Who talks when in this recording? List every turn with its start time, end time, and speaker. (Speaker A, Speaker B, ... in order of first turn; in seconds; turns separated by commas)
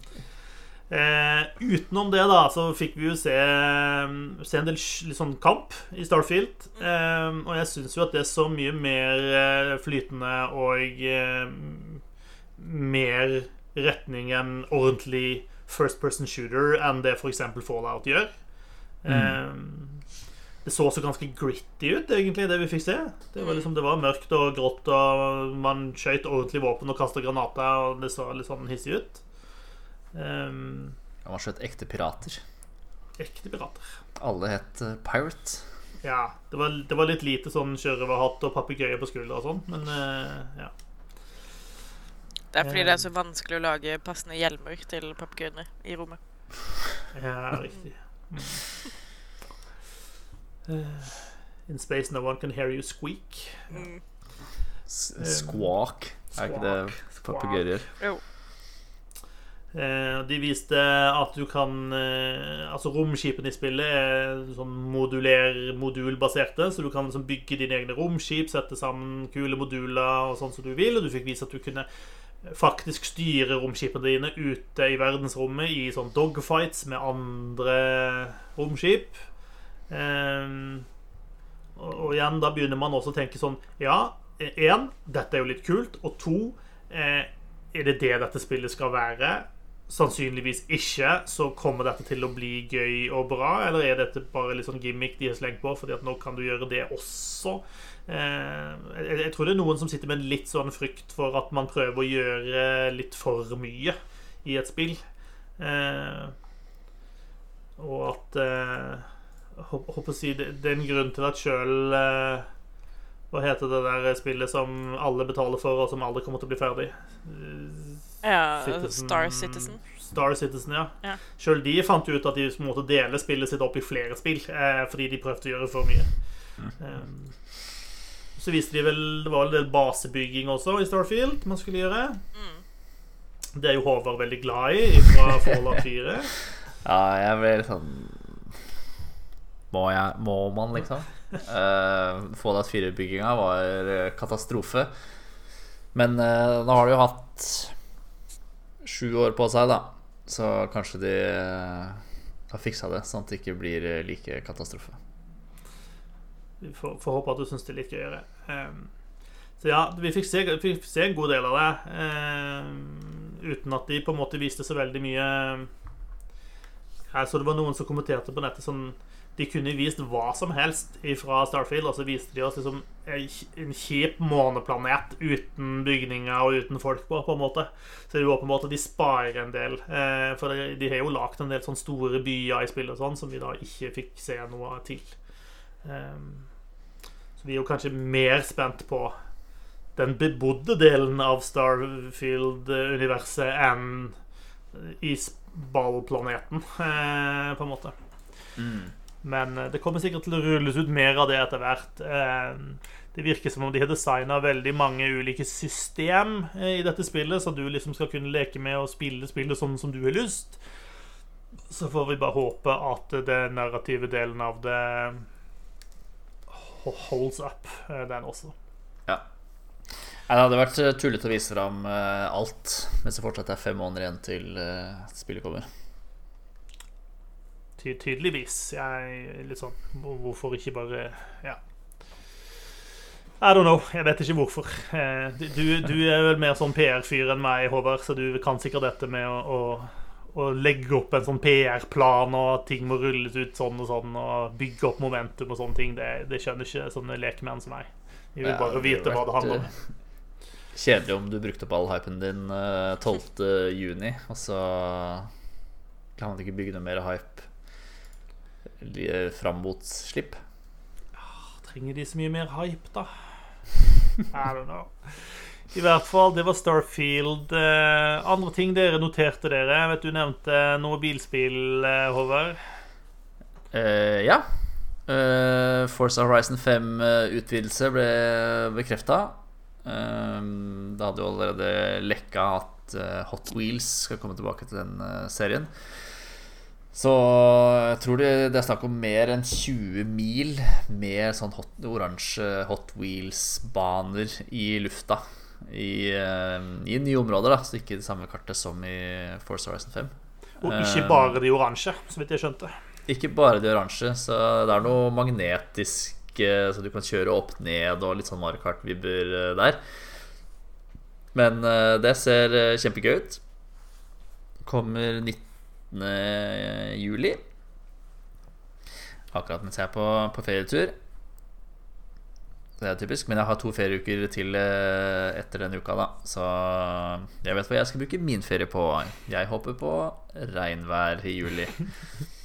Speaker A: 0.9-12.0, Speaker A: 12.6-18.4, Speaker A: 19.0-20.0, Speaker B: 19.1-19.4, Speaker A: 20.6-29.2, Speaker C: 23.4-23.7, Speaker A: 30.1-30.9, Speaker B: 31.2-32.4, Speaker A: 33.2-33.9, Speaker B: 34.2-35.6, Speaker A: 36.0-40.7, Speaker C: 42.5-46.7, Speaker A: 42.6-43.1, Speaker A: 47.1-48.8, Speaker A: 50.7-53.9, Speaker C: 53.7-54.0, Speaker B: 54.9-57.9, Speaker A: 55.2-57.7, Speaker A: 59.7-71.9, Speaker A: 72.4-79.2, Speaker A: 79.9-80.9, Speaker A: 81.8-105.0, Speaker A: 105.6-106.3, Speaker A: 107.8-112.5, Speaker A: 113.3-126.2, Speaker C: 118.2-119.8, Speaker A: 126.7-127.4, Speaker A: 128.3-132.2, Speaker C: 132.3-132.6, Speaker A: 133.5-136.3, Speaker B: 136.8-138.6, Speaker B: 139.7-144.9, Speaker B: 145.9-147.8, Speaker B: 148.8-155.0, Speaker A: 156.6-158.9, Speaker A: 159.6-165.7, Speaker A: 167.1-185.2, Speaker A: 185.8-186.5, Speaker A: 187.4-189.2, Speaker A: 189.9-194.2, Speaker A: 194.7-197.9, Speaker B: 198.6-198.9, Speaker A: 199.2-210.6, Speaker A: 211.7-215.2, Speaker A: 216.5-218.5, Speaker B: 220.3-225.7, Speaker A: 227.8-231.6, Speaker A: 233.4-249.7, Speaker B: 248.4-249.9, Speaker B: 250.7-255.3, Speaker B: 256.1-257.5, Speaker B: 258.8-260.4, Speaker A: 261.2-263.4, Speaker A: 264.3-272.6, Speaker B: 273.7-301.4, Speaker A: 300.6-302.7, Speaker B: 303.1-309.8, Speaker B: 311.3-313.4, Speaker B: 314.6-317.4, Speaker B: 319.3-320.9, Speaker B: 322.8-331.9